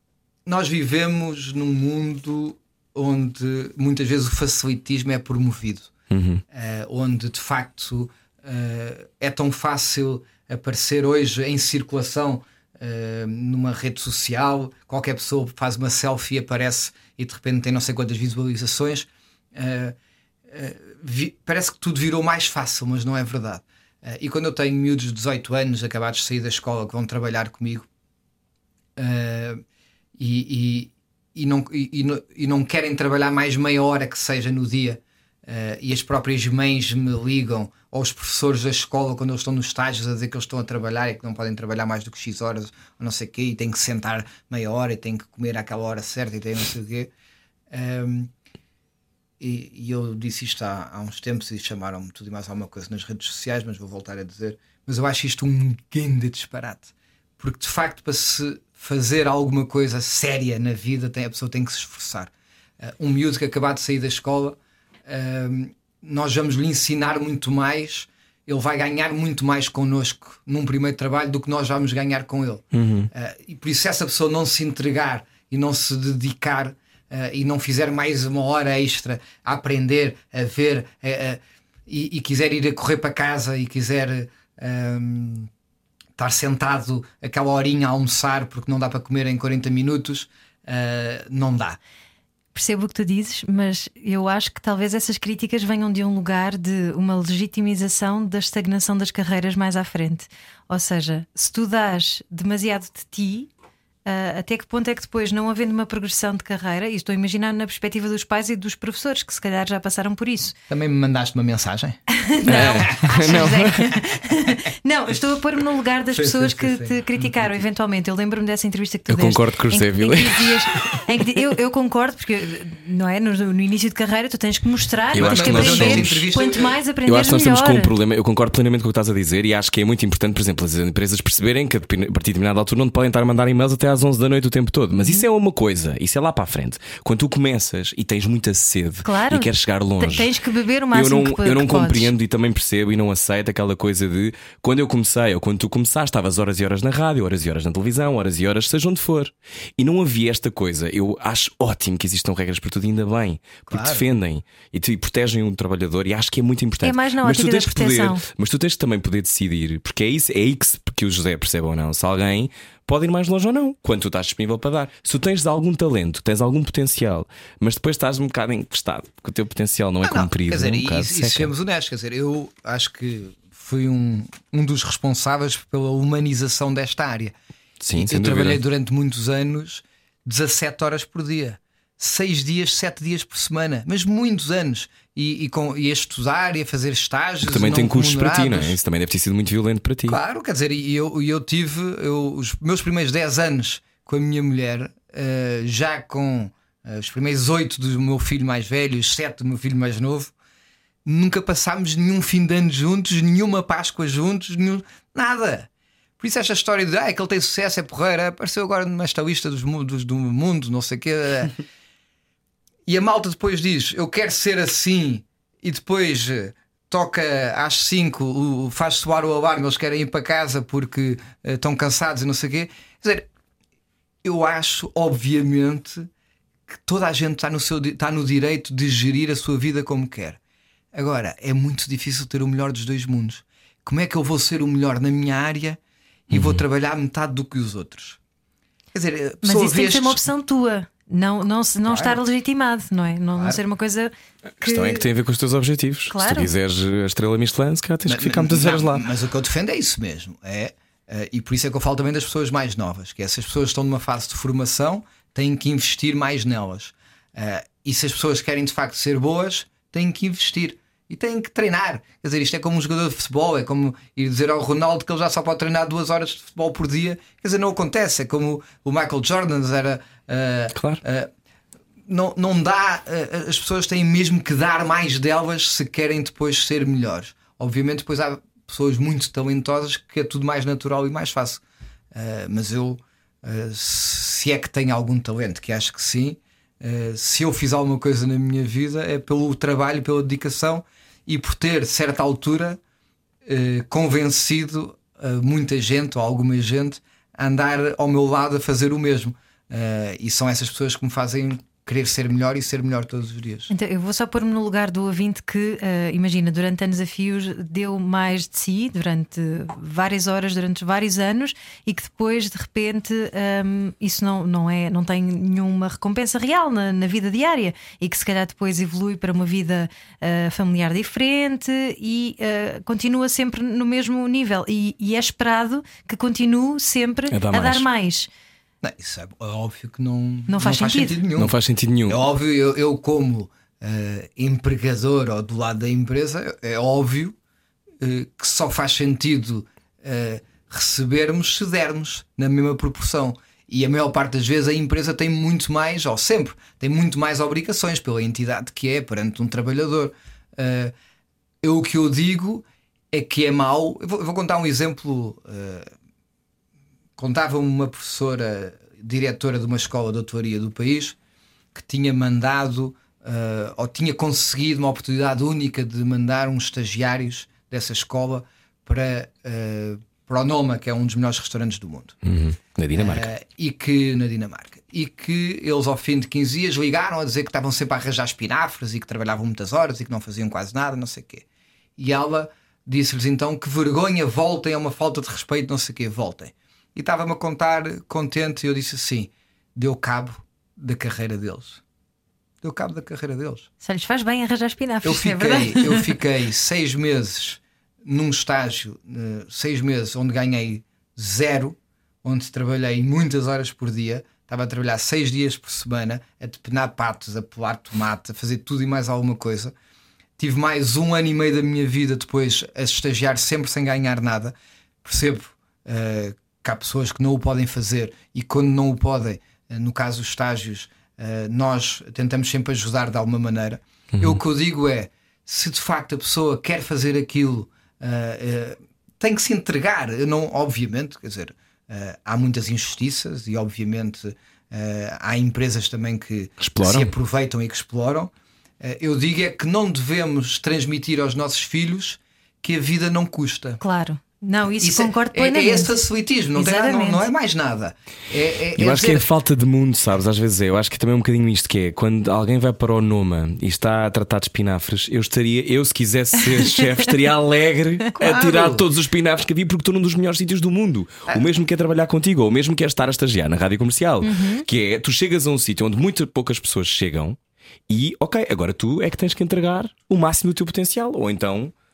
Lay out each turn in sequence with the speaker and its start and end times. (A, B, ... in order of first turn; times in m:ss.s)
0:00.4-0:05.9 A
0:06.1-0:06.4 B
0:06.5-0:20.0 A
0:20.5-0:27.9 A
0:29.0-0:29.6 A
0:30.2-0:47.1 A
0:47.7-0:48.3 A
0:49.4-1:25.5 A
1:12.7-1:13.1 B
1:26.2-1:31.8 A
1:32.5-1:43.5 C
1:44.0-1:50.5 C
1:50.7-1:52.0 A
1:52.1-2:07.9 C
1:52.4-1:54.0 B
1:52.6-1:53.4 A
1:56.1-1:57.3 A
1:59.1-2:01.4 B
2:05.1-2:06.3 B
2:05.2-2:06.7 A
2:07.0-2:20.3 B
2:15.0-2:15.2 C
2:19.0-2:22.1 C
2:20.9-2:51.5 B
2:33.7-2:34.0 A
2:36.8-2:38.2 C
2:50.0-2:57.3 A
2:57.8-2:58.6 B
2:58.0-3:08.8 A
3:07.4-3:10.2 B
3:10.1-3:20.3 A
3:21.0-3:25.7 A
3:26.2-3:31.5 A
3:32.8-3:43.3 A
3:44.2-3:46.1 A
3:46.7-3:50.4 A
3:50.9-3:55.8 A
3:56.3-3:58.2 A
3:56.3-3:56.6 B
3:58.9-4:00.2 A
3:59.4-4:05.0 C
4:01.8-4:02.2 A
4:04.6-4:09.0 B
4:06.1-4:06.5 C
4:08.0-4:31.3 A
4:30.7-4:31.0 B
4:32.1-4:41.6 A
4:42.1-4:52.8 A
4:53.4-5:03.7 A
5:03.7-5:28.3 C
5:27.3-5:27.9 B
5:28.8-5:31.5 A
5:30.5-5:31.2 C
5:31.4-5:32.2 B
5:32.1-5:37.3 A
5:38.0-5:50.9 A
5:51.6-5:55.9 A
5:57.2-6:01.2 A
6:01.7-6:12.2 A
6:12.2-6:13.3 B
6:12.9-6:21.4 A
6:22.0-6:31.8 A
6:32.6-6:33.7 A
6:33.8-6:36.1 C
6:35.0-6:49.7 A
6:50.4-7:23.8 A
7:04.1-7:04.4 B
7:16.6-7:17.1 B
7:23.8-7:26.0 C
7:24.7-7:29.3 A
7:26.5-7:27.3 C
7:28.8-7:51.7 B
7:38.1-7:38.8 A
7:44.2-7:44.6 C